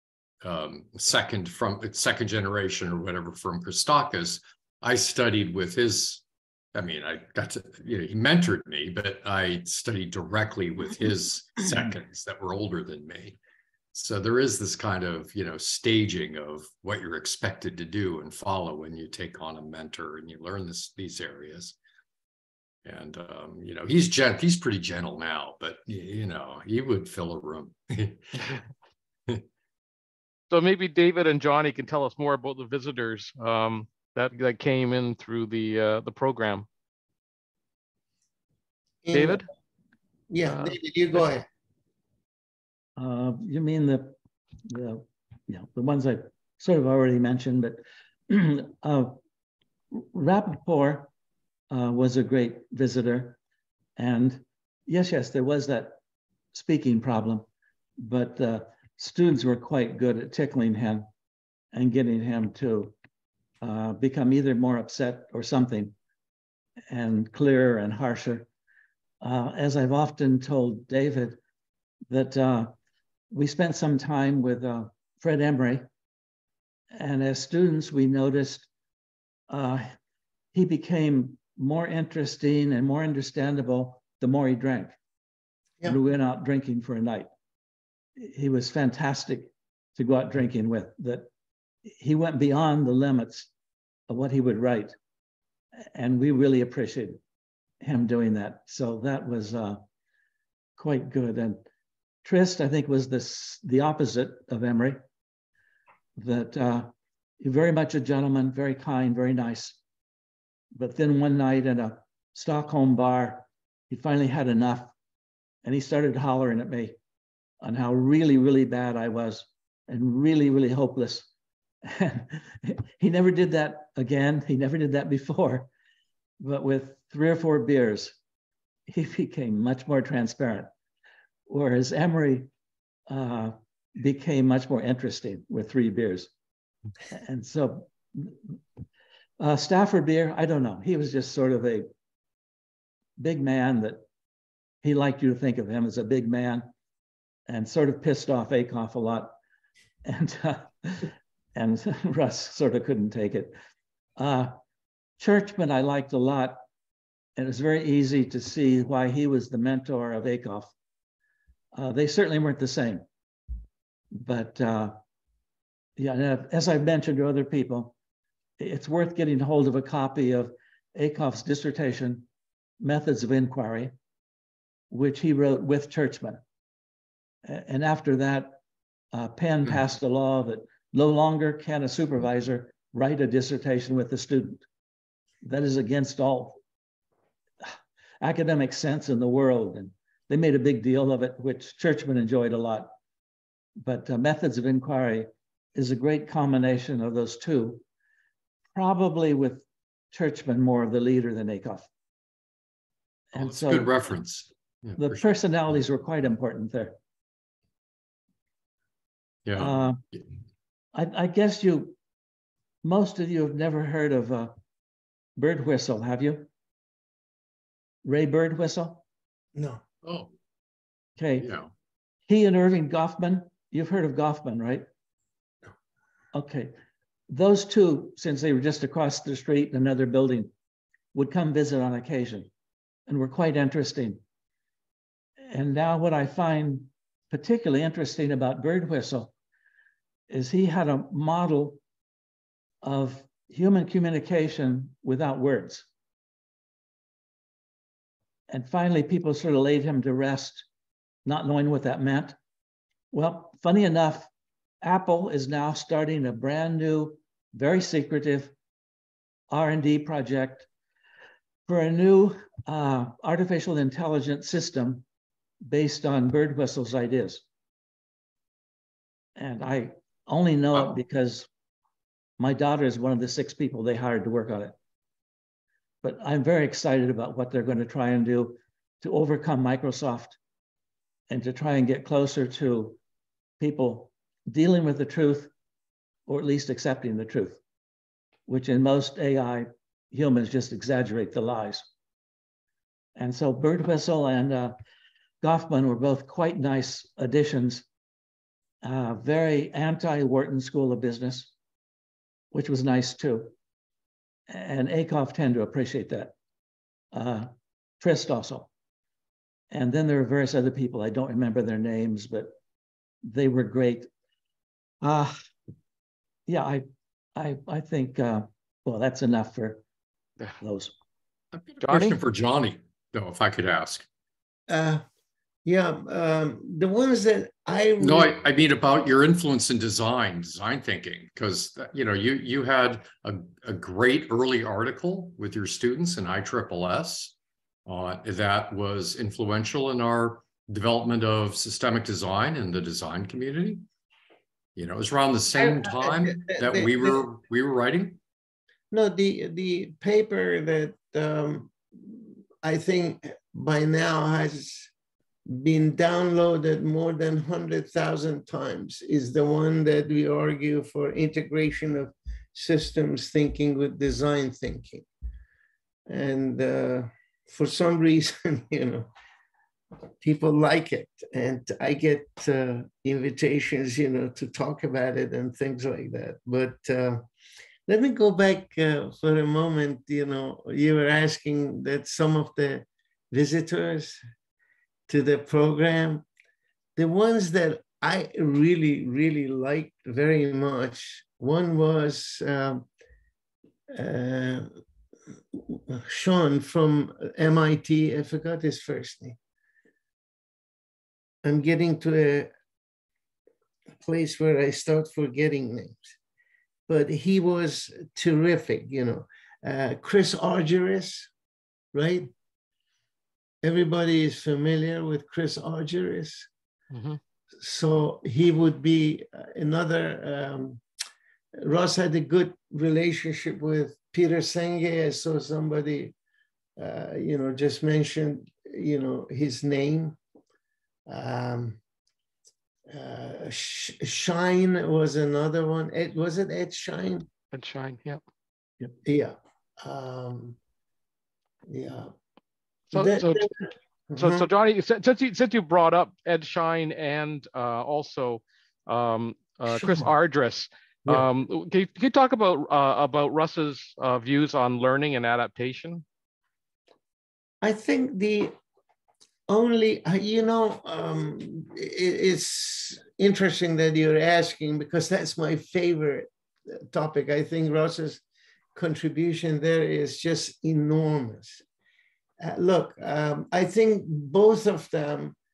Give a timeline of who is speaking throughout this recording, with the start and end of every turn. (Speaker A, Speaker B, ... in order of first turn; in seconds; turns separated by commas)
Speaker A: 0.4-6.2, Speaker A: 6.7-13.4, Speaker A: 13.9-21.8, Speaker A: 22.9-28.6, Speaker B: 30.5-36.7, Speaker C: 39.0-39.4, Speaker B: 39.1-39.5, Speaker C: 40.3-41.5, Speaker B: 40.5-40.8, Speaker D: 43.0-49.2, Speaker D: 49.9-51.1, Speaker D: 51.7-53.4, Speaker D: 54.0-56.0, Speaker D: 56.5-57.5, Speaker D: 58.0-61.1, Speaker D: 61.7-63.0, Speaker D: 63.6-66.0, Speaker D: 66.9-68.5, Speaker D: 69.2-71.4, Speaker D: 72.1-72.7, Speaker D: 73.3-75.9, Speaker D: 76.9-78.7, Speaker D: 79.5-79.9, Speaker D: 80.5-85.0, Speaker D: 85.8-87.3, Speaker D: 88.2-91.3, Speaker D: 91.9-93.5, Speaker D: 94.1-94.9, Speaker D: 95.9-97.2, Speaker D: 97.8-99.8, Speaker D: 100.8-101.6, Speaker D: 102.2-105.0, Speaker D: 106.2-109.8, Speaker D: 110.7-114.9, Speaker D: 115.6-117.0, Speaker D: 117.6-121.3, Speaker D: 121.8-125.7, Speaker D: 126.4-128.2, Speaker D: 128.9-130.7, Speaker D: 131.5-132.5, Speaker D: 133.1-136.3, Speaker D: 137.1-138.6, Speaker D: 139.4-141.9, Speaker D: 143.2-144.0, Speaker D: 144.8-146.7, Speaker D: 147.5-149.3, Speaker D: 150.0-153.6, Speaker D: 154.2-154.5, Speaker D: 155.2-156.6, Speaker D: 157.4-160.7, Speaker D: 161.7-163.1, Speaker D: 164.1-165.0, Speaker D: 166.0-167.9, Speaker D: 168.6-172.3, Speaker D: 172.8-173.9, Speaker D: 174.9-176.4, Speaker D: 177.4-178.6, Speaker D: 179.1-184.6, Speaker D: 185.4-186.6, Speaker D: 188.2-192.9, Speaker D: 193.8-197.8, Speaker D: 198.7-201.9, Speaker D: 203.3-204.0, Speaker A: 203.4-205.2, Speaker D: 205.0-207.0, Speaker A: 209.4-210.2, Speaker D: 209.6-210.0, Speaker D: 210.9-212.0, Speaker D: 212.8-214.5, Speaker D: 215.4-216.5, Speaker D: 218.0-219.0, Speaker C: 219.6-219.8, Speaker A: 220.0-220.3, Speaker D: 221.2-221.5, Speaker A: 221.4-221.7, Speaker D: 222.3-224.9, Speaker D: 226.3-226.7, Speaker D: 227.3-230.5, Speaker D: 231.1-232.5, Speaker D: 233.1-234.2, Speaker D: 235.5-239.3, Speaker D: 240.3-241.8, Speaker D: 242.8-245.9, Speaker D: 248.5-250.7, Speaker D: 251.2-252.4, Speaker D: 253.1-254.3, Speaker D: 254.8-258.5, Speaker D: 259.5-260.7, Speaker D: 261.7-265.1, Speaker D: 265.6-267.4, Speaker D: 269.4-271.5, Speaker D: 272.4-274.8, Speaker D: 276.0-280.4, Speaker D: 281.3-283.0, Speaker D: 283.6-285.5, Speaker D: 286.3-287.6, Speaker D: 288.5-291.9, Speaker D: 293.2-294.7, Speaker D: 295.4-297.9, Speaker D: 298.8-301.5, Speaker D: 302.5-303.5, Speaker D: 304.5-306.3, Speaker D: 307.1-307.5, Speaker D: 308.0-308.7, Speaker D: 309.7-312.5, Speaker D: 313.2-314.1, Speaker D: 315.0-315.4, Speaker D: 316.5-319.8, Speaker D: 320.6-320.9, Speaker A: 321.6-324.1, Speaker B: 321.8-322.2, Speaker C: 324.7-325.0, Speaker C: 325.6-328.4, Speaker A: 328.0-337.4, Speaker A: 337.9-343.9, Speaker A: 344.8-348.2, Speaker C: 345.6-347.2, Speaker C: 348.9-354.9, Speaker C: 355.5-365.1, Speaker C: 366.1-369.1, Speaker C: 370.2-377.2, Speaker C: 377.9-384.2, Speaker C: 385.1-386.2, Speaker C: 387.0-392.9, Speaker C: 393.9-394.7, Speaker C: 395.5-399.4, Speaker C: 401.4-402.5, Speaker C: 404.0-406.1, Speaker C: 406.9-411.3, Speaker C: 411.9-412.3, Speaker C: 413.6-416.5, Speaker B: 416.9-417.2, Speaker C: 417.6-420.8, Speaker C: 421.6-426.1, Speaker C: 426.8-430.2, Speaker C: 431.1-431.8, Speaker C: 432.9-437.3, Speaker B: 437.5-438.2, Speaker C: 439.0-440.6, Speaker C: 441.7-442.1, Speaker B: 442.9-443.5, Speaker C: 442.9-444.5, Speaker B: 444.2-456.0, Speaker C: 457.6-458.5, Speaker C: 459.5-466.3, Speaker C: 466.9-468.2, Speaker C: 468.8-471.6, Speaker C: 472.4-475.4